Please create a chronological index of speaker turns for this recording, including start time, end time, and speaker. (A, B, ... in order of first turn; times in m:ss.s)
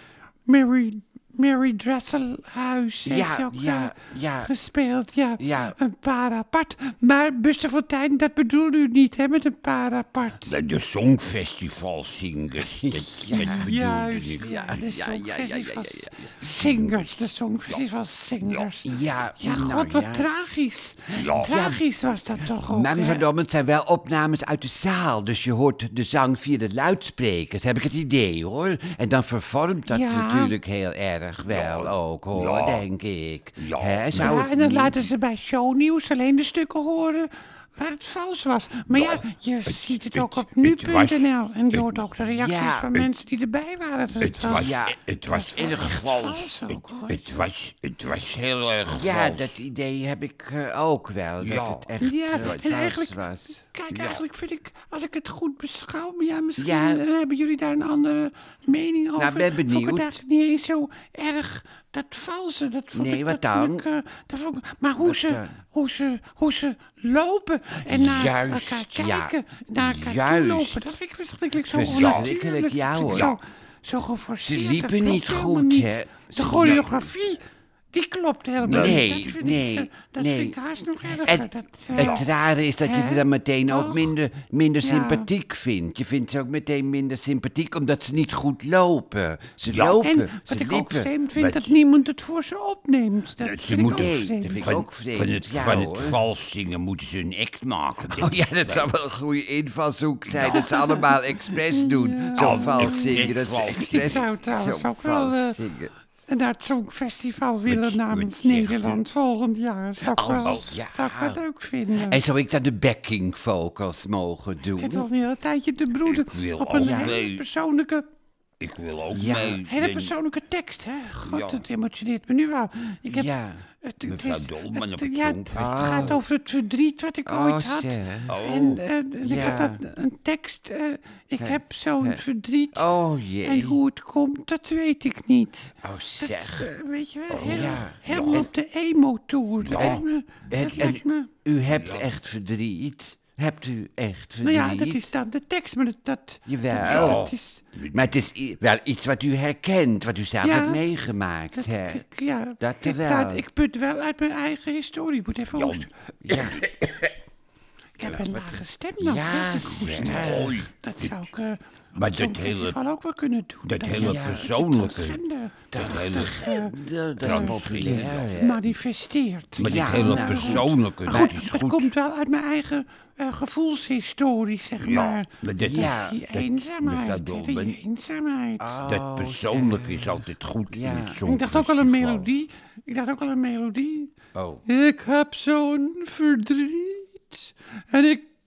0:00.5-0:10.5 A
0:03.0-0:04.5 B
0:05.4-0:05.8 B
0:10.5-0:14.5 C
0:12.6-0:16.3 B
0:13.3-0:23.3 A
0:18.8-0:20.3 B
0:21.2-0:21.7 C
0:21.4-0:21.8 B
0:22.6-0:35.1 B
0:29.9-0:30.5 A
0:31.5-0:32.8 C
0:33.6-0:34.4 C
0:34.1-0:47.4 A
0:39.7-0:41.9 C
0:42.4-0:42.9 B
0:44.2-0:49.6 C
0:44.5-0:46.5 B
0:48.9-0:53.5 B
0:51.4-0:52.8 C
0:52.0-1:17.4 A
0:53.9-0:54.2 C
0:56.6-0:57.0 B
0:59.2-1:00.1 B
1:02.9-1:03.8 B
1:05.0-1:05.5 B
1:07.9-1:10.8 B
1:11.7-1:13.4 B
1:11.8-1:12.3 C
1:13.0-1:13.3 C
1:14.4-1:17.1 B
1:16.5-1:17.0 C
1:17.9-1:22.3 A
1:18.6-1:19.1 C
1:18.7-1:31.1 B
1:22.0-1:22.3 C
1:22.8-1:24.1 A
1:24.8-1:25.3 A
1:29.7-1:30.1 C
1:30.0-1:34.8 A
1:31.4-1:31.7 C
1:33.4-1:38.9 C
1:33.7-1:36.2 B
1:38.1-1:45.9 B
1:40.3-1:40.7 C
1:40.4-1:45.6 A
1:42.4-1:44.3 C
1:46.3-1:52.2 A
1:47.7-1:49.0 C
1:50.2-1:51.4 B
1:50.4-1:50.8 C
1:52.0-1:55.1 B
1:54.8-1:58.1 A
1:56.0-1:57.4 C
1:56.8-1:57.2 B
1:58.6-2:00.1 C
1:59.1-1:59.7 B
1:59.2-2:12.9 A
2:01.2-2:01.6 C
2:03.1-2:03.6 B
2:04.0-2:06.2 C
2:05.5-2:06.2 B
2:07.3-2:09.8 B
2:08.3-2:09.7 C
2:11.4-2:12.2 B
2:12.7-2:13.8 B
2:13.4-2:21.3 A
2:15.8-2:16.7 B
2:17.3-2:18.4 C
2:17.4-2:18.5 B
2:19.6-2:21.0 C
2:19.8-2:25.1 B
2:21.7-2:22.1 C
2:24.4-2:27.6 A
2:26.5-2:27.3 B
2:26.8-2:28.1 C
2:27.9-2:32.0 B
2:30.4-2:30.8 A
2:31.6-2:35.9 A
2:32.6-2:33.4 B
2:35.5-2:37.1 C
2:36.2-2:36.6 B
2:38.0-2:58.8 A
2:39.0-2:40.7 B
2:39.8-2:41.2 C
2:42.0-2:42.8 C
2:43.6-2:45.2 C
2:43.9-2:44.6 B
2:45.7-2:46.5 C
2:45.7-2:48.7 B
2:47.2-2:48.3 C
2:49.6-2:51.9 C
2:49.6-2:51.5 B
2:54.8-2:57.8 C
2:55.6-2:56.2 B
2:58.6-3:01.2 B
2:58.8-3:02.3 C
3:01.2-3:04.1 A
3:04.4-3:04.6 B
3:04.7-3:08.3 A